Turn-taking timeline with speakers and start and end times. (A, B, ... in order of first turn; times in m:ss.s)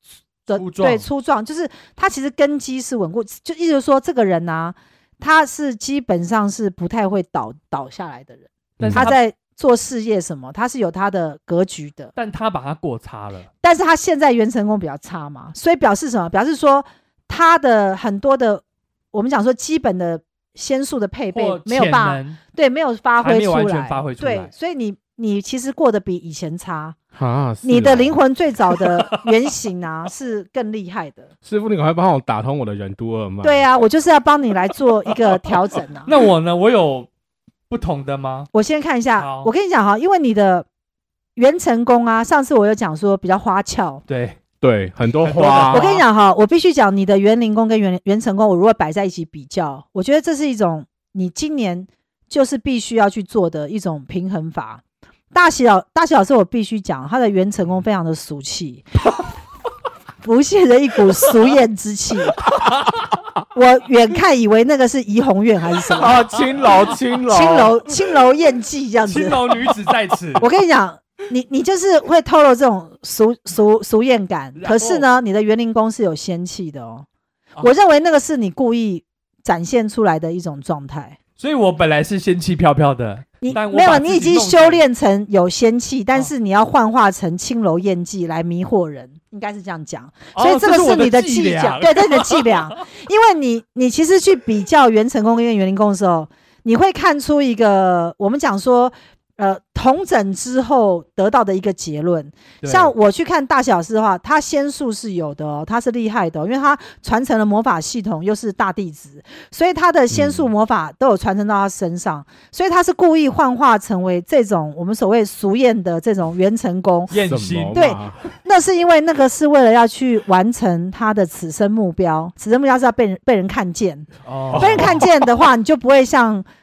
0:00.5-0:12.1 A
0:00.5-0:01.1 B
0:08.8-0:09.2 C
0:08.8-0:09.2 B
0:12.2-0:13.5 B
0:13.6-0:27.0 A
0:21.3-0:22.4 B
0:23.2-0:24.5 B
0:27.2-0:28.2 C
0:27.6-0:31.3 A
0:31.4-0:33.6 C
0:33.4-0:36.1 A
0:36.1-0:37.1 B
0:37.7-0:38.5 B
0:38.5-0:40.7 A
0:39.2-0:39.5 B
0:41.4-0:44.0 A
0:44.1-0:44.4 B
0:44.6-0:45.9 C
0:45.2-0:46.0 B
0:45.7-0:58.8 A
1:00.2-1:02.4 A
1:02.6-1:02.9 B
1:03.5-1:06.2 A
1:05.9-1:07.8 C
1:06.4-1:06.8 B
1:07.3-1:09.5 A
1:09.1-1:10.5 B
1:10.4-1:17.1 A
1:14.6-1:15.0 B
1:17.6-1:21.2 A
1:21.4-1:24.8 B
1:23.4-1:57.2 A
1:30.4-1:32.6 B
1:42.6-1:42.9 B
1:50.1-1:50.5 C
1:57.1-1:57.9 B
1:57.2-1:58.2 C
1:57.7-2:06.4 A
2:04.3-2:05.1 B